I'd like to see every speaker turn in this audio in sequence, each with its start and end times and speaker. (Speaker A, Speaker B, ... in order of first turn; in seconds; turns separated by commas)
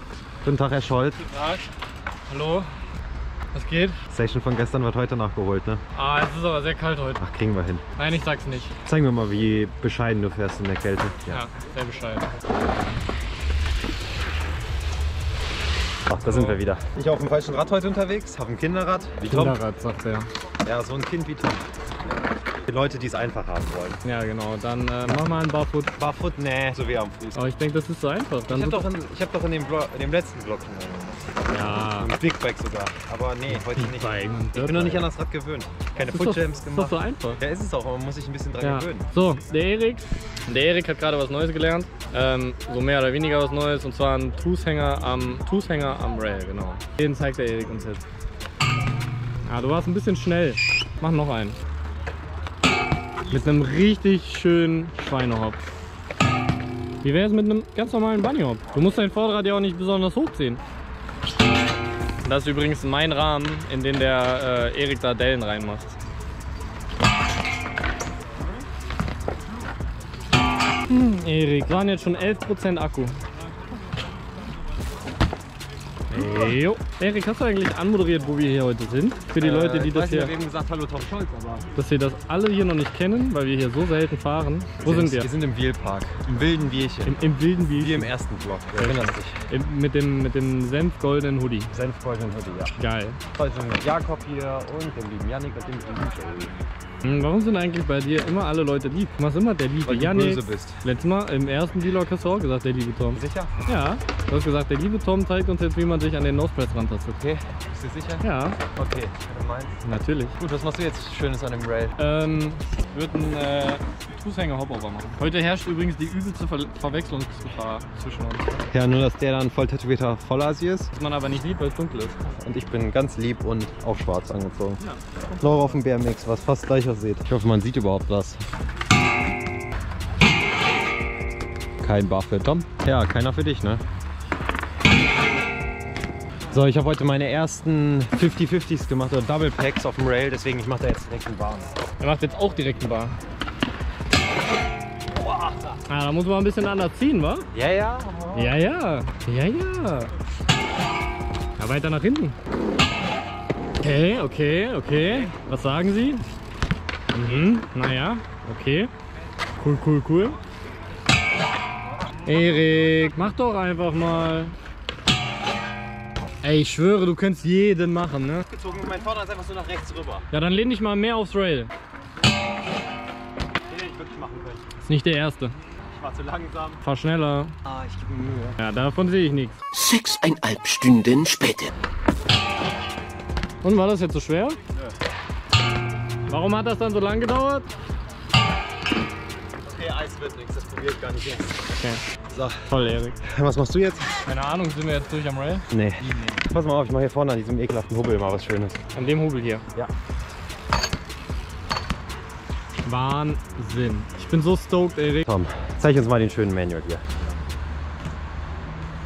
Speaker A: 0.4-1.2, Speaker B: 1.2-1.6, Speaker B: 2.3-2.7, Speaker B: 3.5-4.0, Speaker A: 4.1-5.8, Speaker B: 5.9-7.2, Speaker A: 7.2-7.8, Speaker B: 8.0-8.7, Speaker A: 8.8-11.4, Speaker B: 11.3-12.3, Speaker A: 16.1-19.6, Speaker B: 16.2-16.6, Speaker B: 19.2-20.3, Speaker A: 20.6-21.6, Speaker A: 22.5-24.0, Speaker B: 24.0-25.9, Speaker A: 26.0-27.4, Speaker B: 27.3-28.9, Speaker A: 28.5-39.1, Speaker B: 31.5-32.1, Speaker B: 33.5-35.1, Speaker B: 36.0-37.4, Speaker B: 38.6-48.0, Speaker B: 49.4-51.6, Speaker B: 53.3-55.6, Speaker B: 57.0-60.6, Speaker B: 62.2-66.0, Speaker B: 70.9-73.2, Speaker B: 76.1-80.3, Speaker A: 79.4-81.7, Speaker B: 81.7-85.3, Speaker A: 84.8-89.4, Speaker B: 87.0-88.1, Speaker B: 88.8-91.7, Speaker A: 91.7-92.7, Speaker B: 92.7-93.2, Speaker A: 93.3-96.6, Speaker B: 97.0-107.2, Speaker A: 99.8-100.8, Speaker A: 103.1-103.7, Speaker A: 107.2-109.8, Speaker B: 108.2-108.6, Speaker B: 109.8-110.4, Speaker A: 110.4-112.0, Speaker B: 112.0-118.7, Speaker A: 118.7-120.9, Speaker B: 120.9-122.3, Speaker A: 122.4-124.8, Speaker B: 124.8-125.7, Speaker A: 125.4-128.4, Speaker A: 131.8-133.8, Speaker A: 136.5-141.7, Speaker B: 142.0-143.2, Speaker A: 145.2-145.6, Speaker B: 145.9-147.5, Speaker A: 147.5-148.6, Speaker B: 148.3-150.1, Speaker B: 151.6-152.3, Speaker B: 153.8-156.2, Speaker B: 157.1-158.9, Speaker B: 159.6-160.4, Speaker B: 162.2-164.5, Speaker B: 166.4-168.4, Speaker A: 168.5-170.3, Speaker B: 170.3-171.7, Speaker A: 173.7-174.6, Speaker B: 174.8-175.5, Speaker A: 175.9-176.8, Speaker B: 176.8-177.6, Speaker A: 177.6-178.6, Speaker B: 178.6-179.6, Speaker C: 179.7-181.7, Speaker B: 183.6-184.6, Speaker B: 186.3-187.7, Speaker A: 189.6-191.6, Speaker B: 191.8-192.0, Speaker A: 192.3-192.7, Speaker B: 192.7-193.2, Speaker A: 193.2-194.1, Speaker B: 194.2-195.7, Speaker A: 195.7-198.8, Speaker B: 198.9-199.6, Speaker B: 202.8-205.2, Speaker A: 205.2-207.0